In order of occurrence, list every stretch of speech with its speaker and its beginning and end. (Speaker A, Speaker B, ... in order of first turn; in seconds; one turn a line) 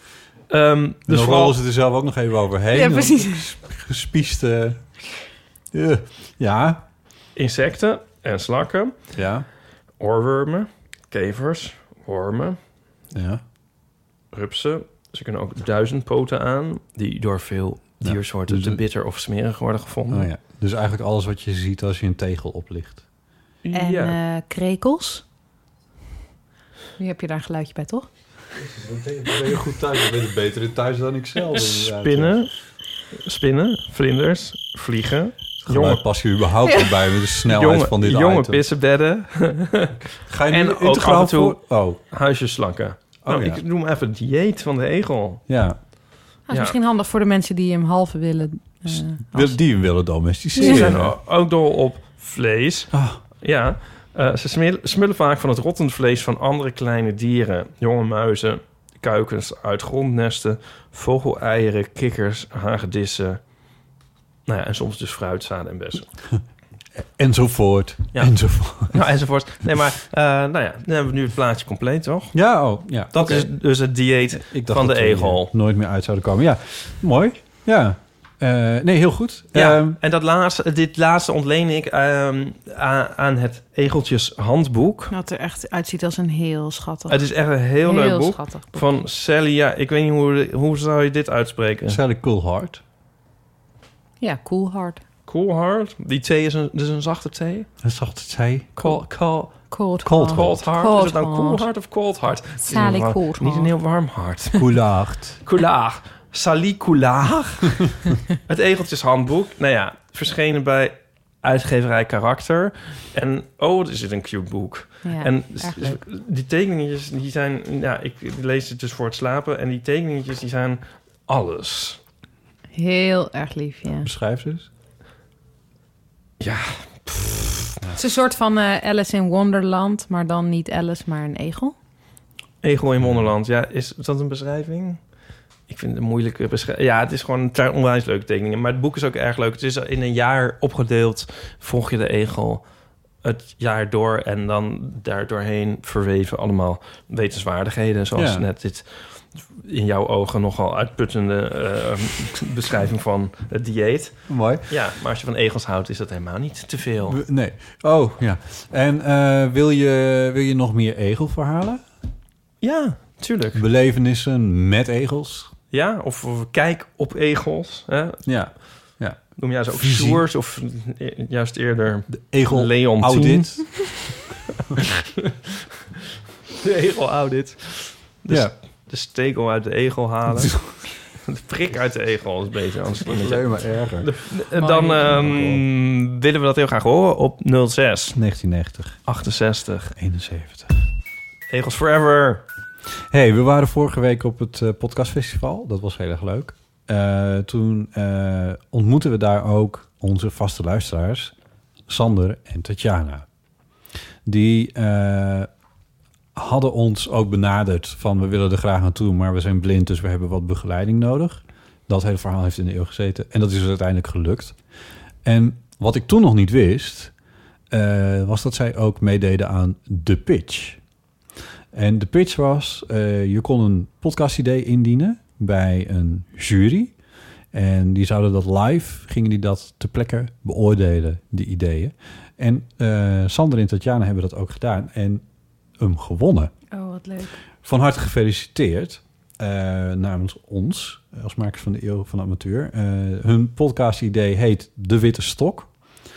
Speaker A: 0.5-1.6
Speaker B: 1.1-5.0
Speaker C: 2.7-3.4
Speaker B: 5.7-6.8
Speaker A: 7.3-9.2
Speaker B: 9.1-9.4
Speaker A: 10.0-12.6
Speaker B: 13.1-13.4
Speaker A: 14.3-20.3
Speaker B: 18.0-18.8
Speaker B: 20.1-23.0
Speaker A: 23.6-24.1
Speaker C: 23.7-25.2
Speaker C: 27.0-28.1
Speaker B: 28.6-32.4
Speaker A: 31.6-32.5
Speaker A: 33.1-36.0
Speaker B: 35.6-38.6
Speaker A: 37.5-39.9
Speaker B: 40.1-42.0
Speaker A: 40.5-45.4
Speaker B: 43.2-43.6
Speaker B: 45.5-45.8
Speaker C: 46.5-49.6
Speaker A: 46.5-46.8
Speaker B: 49.3-51.1
Speaker C: 50.5-50.8
Speaker A: 50.6-63.4
Speaker B: 52.9-53.2
Speaker A: 64.5-66.1
Speaker B: 67.0-69.0
Speaker A: 68.1-72.4
Speaker B: 72.3-73.5
Speaker A: 73.1-75.5
Speaker B: 74.3-80.0
Speaker A: 79.5-85.1
Speaker C: 85.1-87.2
Speaker A: 87.1-92.0
Speaker C: 87.8-88.8
Speaker B: 91.9-92.8
Speaker C: 94.2-95.0
Speaker A: 95.3-97.7
Speaker B: 97.8-98.8
Speaker A: 98.8-99.7
Speaker C: 99.7-101.6
Speaker B: 100.0-100.7
Speaker A: 100.2-104.9
Speaker C: 102.6-103.7
Speaker B: 104.6-105.4
Speaker A: 105.4-122.0
Speaker C: 115.0-116.0
Speaker C: 122.7-124.1
Speaker B: 124.0-124.7
Speaker A: 126.4-127.8
Speaker C: 128.0-131.7
Speaker A: 132.6-135.0
Speaker B: 133.0-133.3
Speaker A: 135.7-142.6
Speaker A: 143.2-157.2
Speaker B: 148.1-148.4
Speaker B: 154.3-154.6
Speaker B: 157.1-161.8
Speaker A: 162.6-163.6
Speaker B: 163.5-165.5
Speaker A: 165.7-174.2
Speaker B: 168.2-170.2
Speaker B: 172.1-173.9
Speaker A: 176.6-180.6
Speaker B: 180.3-180.8
Speaker A: 181.2-188.2
Speaker B: 183.1-184.3
Speaker C: 184.6-185.2
Speaker B: 184.9-185.6
Speaker B: 188.1-189.0
Speaker A: 189.1-189.9
Speaker B: 190.0-190.8
Speaker A: 191.5-192.4
Speaker B: 193.1-201.3
Speaker B: 201.9-203.2
Speaker B: 204.2-205.5
Speaker B: 206.3-214.6
Speaker B: 215.2-217.1
Speaker B: 217.7-220.8
Speaker B: 221.7-226.9
Speaker B: 227.5-235.2
Speaker B: 235.8-236.5
Speaker C: 236.7-237.4
Speaker B: 237.6-245.7